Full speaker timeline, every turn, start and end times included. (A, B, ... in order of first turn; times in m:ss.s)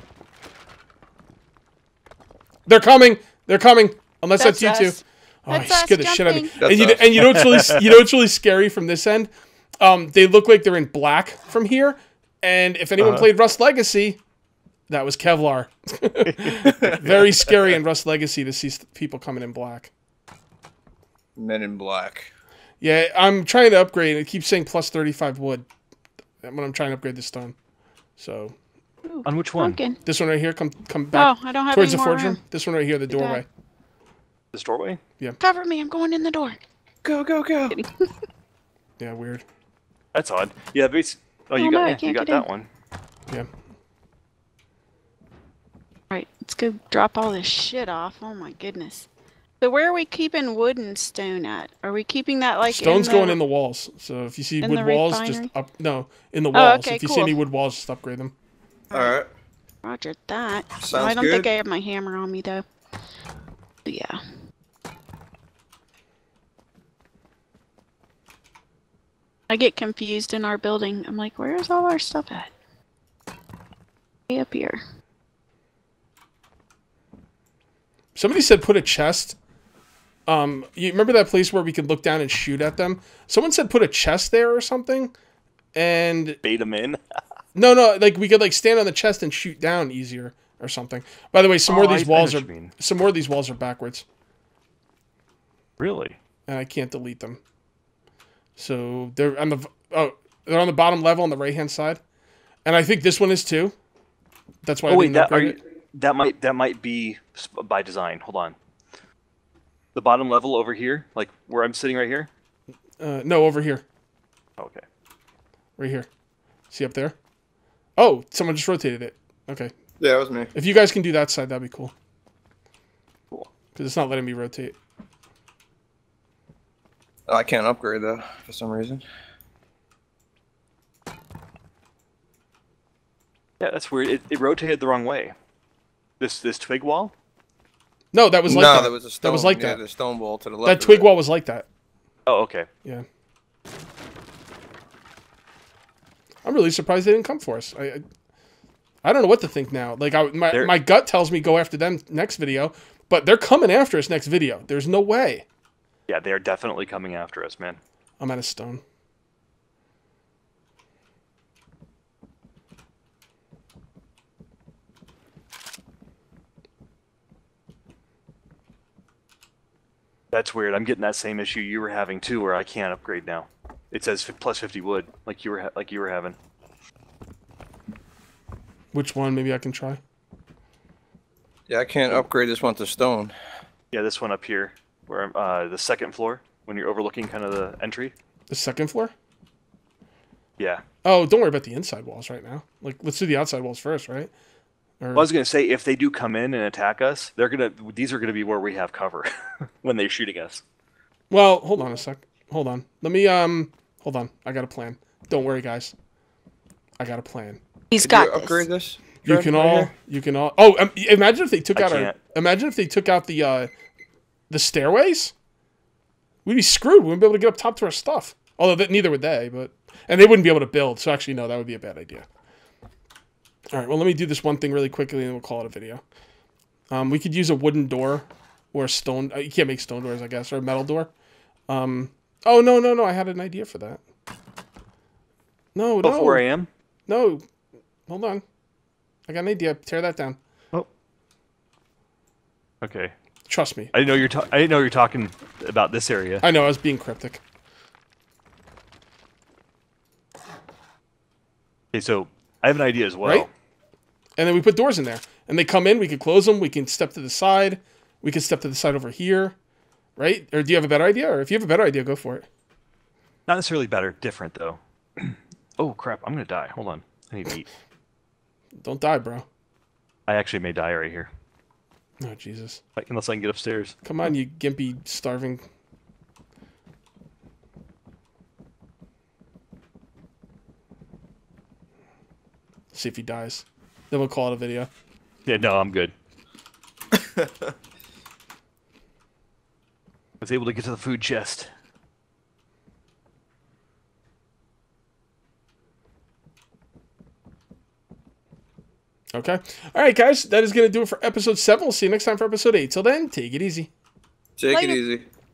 0:02.7-0:14.2 A
0:04.4-0:06.5 B
0:06.6-0:07.3 C
0:07.2-0:07.8 D
0:13.0-0:13.3 D
0:14.9-0:19.9 A
0:16.2-0:17.3 D
0:21.4-0:22.3 C
0:22.8-0:25.7 A
0:26.4-0:27.6 A
0:28.2-0:28.6 A
0:29.1-0:30.0 B
0:29.3-0:29.8 D
0:30.0-0:33.4 A
0:31.2-0:32.4 B
0:33.1-0:33.4 B
0:34.5-0:35.0 D
0:35.4-0:36.6 B
0:37.0-0:37.8 C
0:39.0-0:39.4 A
0:40.1-0:42.7 D
0:41.6-0:42.4 B
0:46.1-0:49.1 B
0:49.6-0:53.4 B
0:52.7-0:58.3 A
0:54.6-0:55.5 B
0:56.5-0:57.4 B
0:58.9-0:59.3 C
0:59.8-1:02.6 B
1:00.8-1:01.5 C
1:03.8-1:04.2 B
1:09.5-1:12.5 B
1:14.3-1:14.8 B
1:18.2-1:19.4 A
1:20.3-1:25.1 A
1:25.8-1:26.4 A
1:26.4-1:27.0 D
1:27.6-1:34.1 A
1:31.7-1:32.7 D
1:35.8-1:36.2 D
1:36.5-1:37.4 A
1:38.6-1:42.0 A
1:42.6-1:43.8 A
1:44.6-1:45.6 A
1:44.9-1:48.6 D
1:49.9-1:52.3 D
1:53.0-1:53.8 A
1:54.6-1:54.8 D
1:55.8-1:56.1 A
1:56.7-1:57.2 A
1:58.0-1:59.7 A
2:00.0-2:00.5 C
2:00.6-2:01.9 A
2:03.8-2:04.8 A
2:07.3-2:09.0 C
2:13.6-2:15.4 D
2:16.2-2:17.1 D
2:18.1-2:19.8 A
2:18.5-2:21.1 C
2:20.6-2:21.7 A
2:22.3-2:22.7 D
2:26.4-2:28.0 A
2:29.0-2:35.5 A
2:36.1-2:37.8 D
2:38.2-2:38.8 A
2:50.3-2:56.4 D
2:58.9-3:00.0 A
3:01.7-3:03.3 C
3:03.9-3:08.1 D
3:08.5-3:09.1 A
3:11.0-3:14.3 A
3:15.0-3:15.3 A
3:15.2-3:20.6 D
3:21.3-3:25.9 A
3:27.0-3:27.6 A
3:27.9-3:28.6 B
3:28.0-3:29.9 C
3:29.2-3:33.7 A
3:31.8-3:32.2 D
3:34.5-3:35.3 A
3:36.4-3:42.3 A
3:43.7-3:46.0 A
3:46.9-3:51.1 A
3:51.7-3:54.0 A
3:55.8-3:56.4 A
3:56.0-3:56.7 D
3:57.1-3:57.4 A
3:58.1-3:58.4 A
3:59.3-4:00.4 A
4:02.8-4:03.1 D
4:03.5-4:03.9 A
4:03.9-4:06.4 D
4:06.4-4:07.4 A
4:11.9-4:13.5 D
4:13.2-4:13.5 A
4:14.4-4:19.6 A
4:20.2-4:22.5 A
4:23.5-4:27.7 D
4:28.8-4:29.5 A
4:30.3-4:31.3 D
4:32.2-4:32.8 A
4:33.0-4:34.0 D
4:34.0-4:35.6 A
4:42.9-4:44.9 A
4:45.5-4:46.1 D
4:47.1-4:47.5 C
4:50.4-4:51.7 D
4:59.3-5:03.9 A
5:04.6-5:05.3 C
5:04.7-5:05.0 B